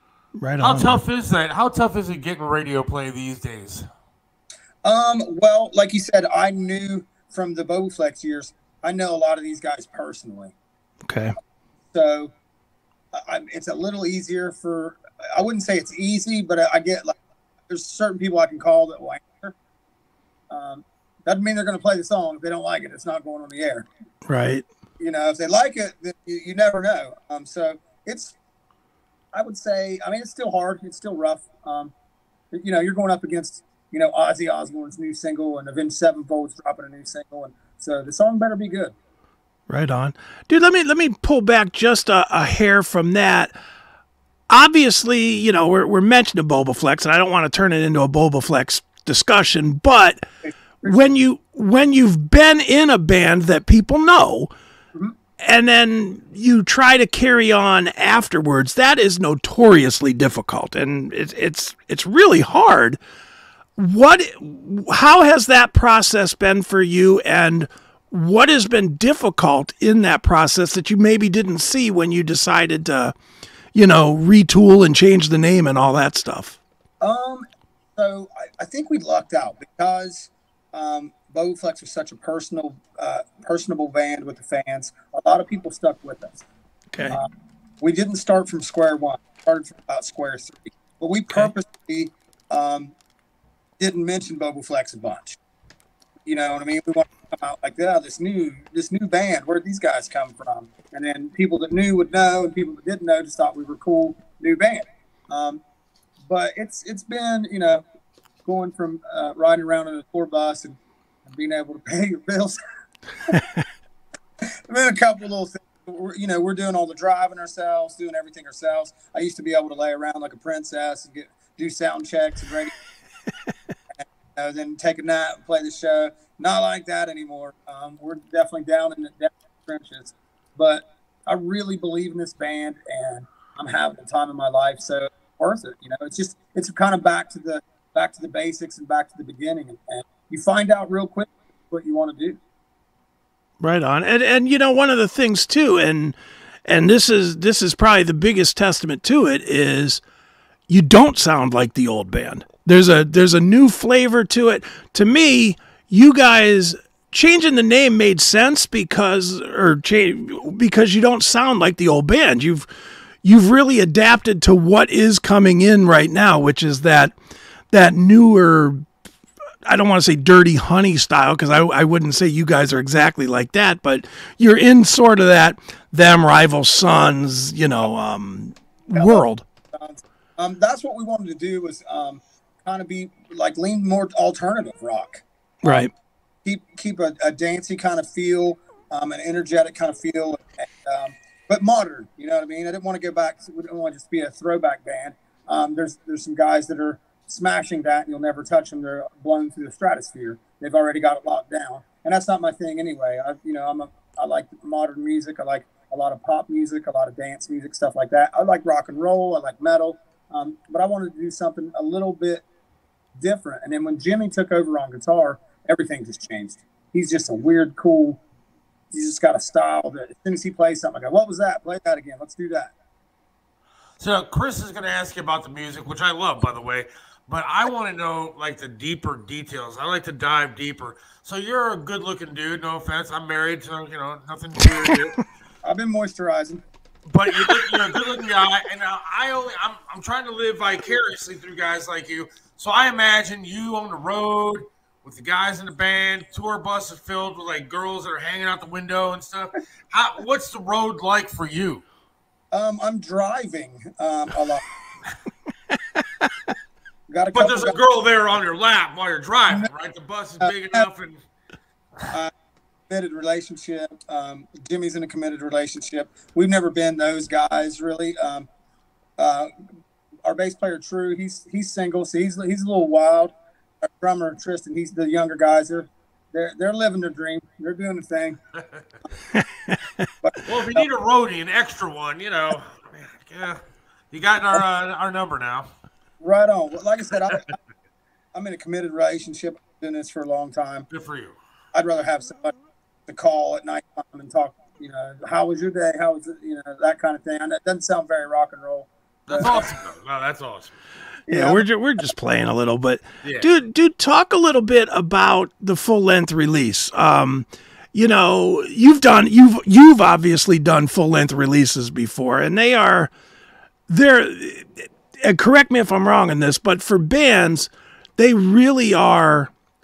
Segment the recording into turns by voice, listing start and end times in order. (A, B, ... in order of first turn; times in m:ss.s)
0:00.4-0:01.0 A
0:00.6-0:03.9 B
0:04.8-0:10.5 C
0:11.0-0:11.3 A
0:11.9-0:12.3 C
0:13.1-0:17.2 C
0:17.7-0:19.5 C
0:20.5-0:23.9 C
0:24.2-0:24.6 A
0:25.0-0:28.3 C
0:29.3-0:31.9 C
0:32.5-0:38.9 C
0:39.7-0:43.5 A
0:44.5-0:50.2 A
0:50.4-0:51.2 C
0:50.8-0:54.5 A
0:55.4-1:03.0 A
1:03.8-1:13.1 A
1:13.7-1:16.6 A
1:17.0-1:17.4 C
1:18.0-1:26.4 C
1:26.9-1:27.2 A
1:27.8-1:32.9 C
1:33.8-1:35.4 C
1:36.2-1:45.6 C
1:46.2-1:47.8 C
1:48.4-1:52.6 C
1:53.3-1:53.6 A
1:54.7-2:02.7 C
2:04.4-2:22.4 C
2:23.6-2:30.0 A
2:30.7-2:42.7 A
2:43.2-2:47.1 A
2:47.7-2:48.9 A
2:49.6-2:59.4 A
2:58.9-3:05.9 C
3:05.6-3:05.9 A
3:06.4-3:32.4 C
3:33.2-3:38.2 C
3:38.9-3:42.7 C
3:44.0-3:55.2 B
3:55.6-3:56.6 C
3:57.1-4:11.8 B
4:12.5-4:14.6 C
4:17.1-4:17.8 C
4:17.3-4:21.2 B
4:20.4-4:20.8 C
4:22.9-4:28.5 C
4:29.2-4:29.5 C
4:30.2-4:38.4 C
4:39.3-4:40.1 A
4:40.2-4:40.9 C
4:40.4-4:45.7 B
4:46.2-4:47.5 C
4:48.3-4:50.9 C
4:50.9-4:51.4 B
4:51.7-4:52.5 C
4:53.1-4:59.7 C
4:59.3-5:00.8 B
5:01.3-5:01.7 C
5:01.3-5:13.1 A
5:03.2-5:03.5 B
5:13.9-5:19.5 A